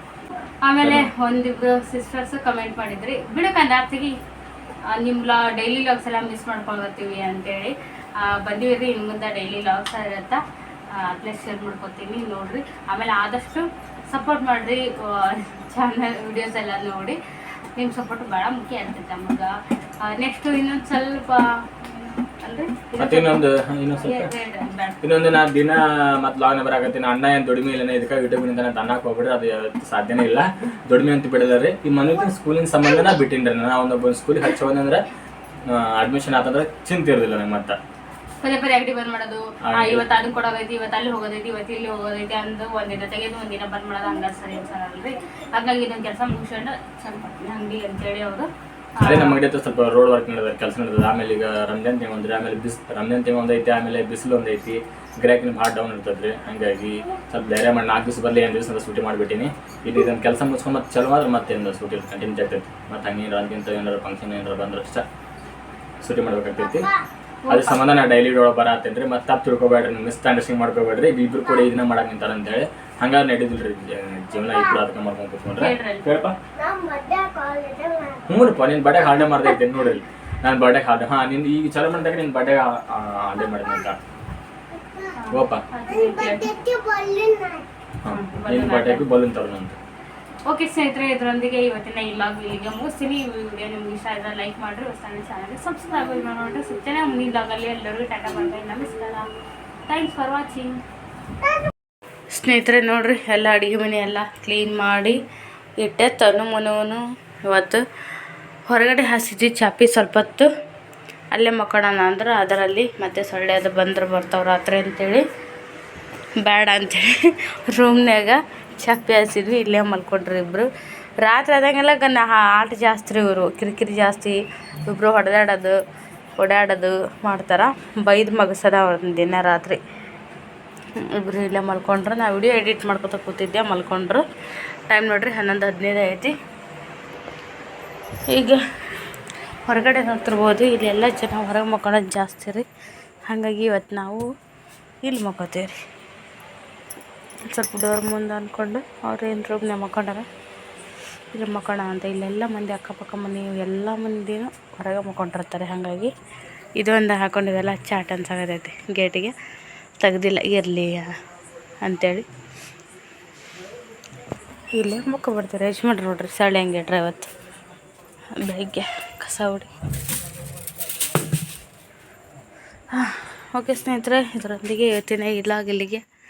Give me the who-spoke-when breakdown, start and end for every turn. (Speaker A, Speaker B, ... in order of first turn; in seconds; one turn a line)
Speaker A: 0.7-4.2
Speaker B: 0.8-1.1
Speaker A: 4.9-10.4
Speaker A: 10.9-17.2
Speaker A: 17.8-25.0
Speaker B: 23.0-24.3
Speaker B: 25.0-35.0
Speaker B: 35.6-37.8
Speaker A: 38.4-49.4
Speaker B: 39.6-40.1
Speaker B: 49.0-65.1
Speaker B: 66.0-66.9
Speaker C: 66.7-67.0
Speaker A: 67.5-67.8
Speaker B: 67.5-76.4
Speaker A: 75.6-76.1
Speaker C: 76.6-78.4
Speaker B: 78.3-84.0
Speaker C: 84.7-85.2
Speaker A: 85.2-86.5
Speaker B: 85.3-85.6
Speaker C: 85.9-87.7
Speaker B: 88.0-89.8
Speaker A: 88.1-89.0
Speaker A: 90.5-99.3
Speaker A: 99.9-100.8
Speaker A: 102.3-105.2
Speaker A: 105.8-107.8
Speaker A: 108.7-110.5
Speaker A: 111.3-115.2
Speaker A: 116.4-120.7
Speaker A: 121.2-125.8
Speaker A: 126.4-129.8
Speaker A: 131.0-134.2
Speaker A: 134.9-136.3
Speaker A: 138.3-138.6
Speaker A: 139.7-142.7
Speaker A: 143.3-144.3
Speaker A: 145.0-145.8
Speaker A: 147.4-150.3
Speaker A: 151.3-156.1
Speaker A: 156.8-159.3
Speaker A: 160.0-161.2
Speaker A: 161.8-162.2
Speaker A: 164.7-167.3
Speaker A: 168.3-169.7
Speaker A: 172.9-176.0